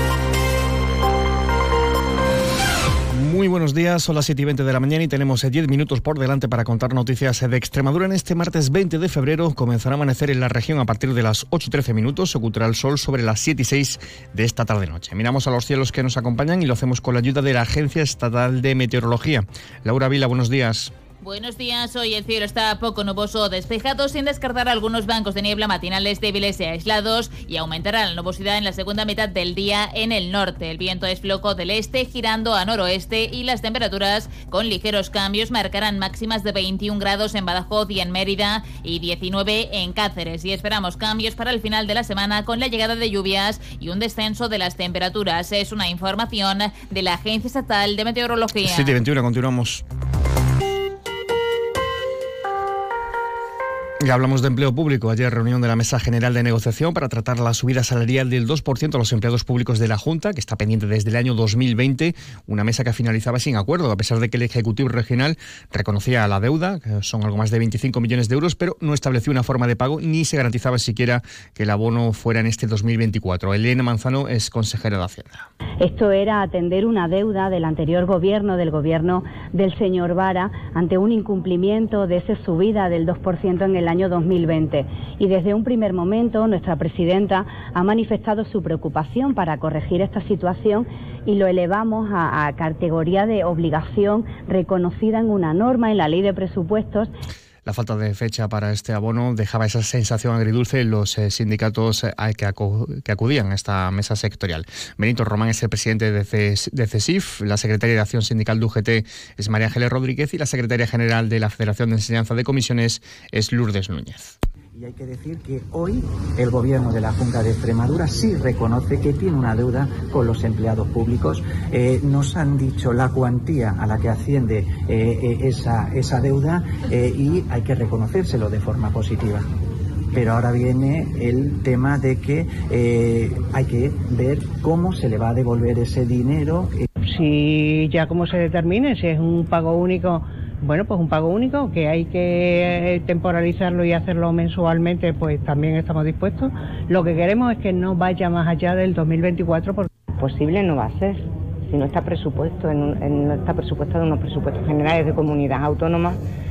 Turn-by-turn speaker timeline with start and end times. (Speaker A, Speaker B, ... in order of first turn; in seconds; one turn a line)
Speaker A: 3.2-20.9
Speaker B: 21.2-49.0
Speaker A: 48.6-49.8
Speaker A: 54.0-75.5
Speaker C: 75.8-97.1
Speaker A: 97.6-114.3
Speaker D: 114.7-129.5
Speaker D: 130.1-136.8
Speaker E: 137.1-149.9
Speaker F: 150.2-156.2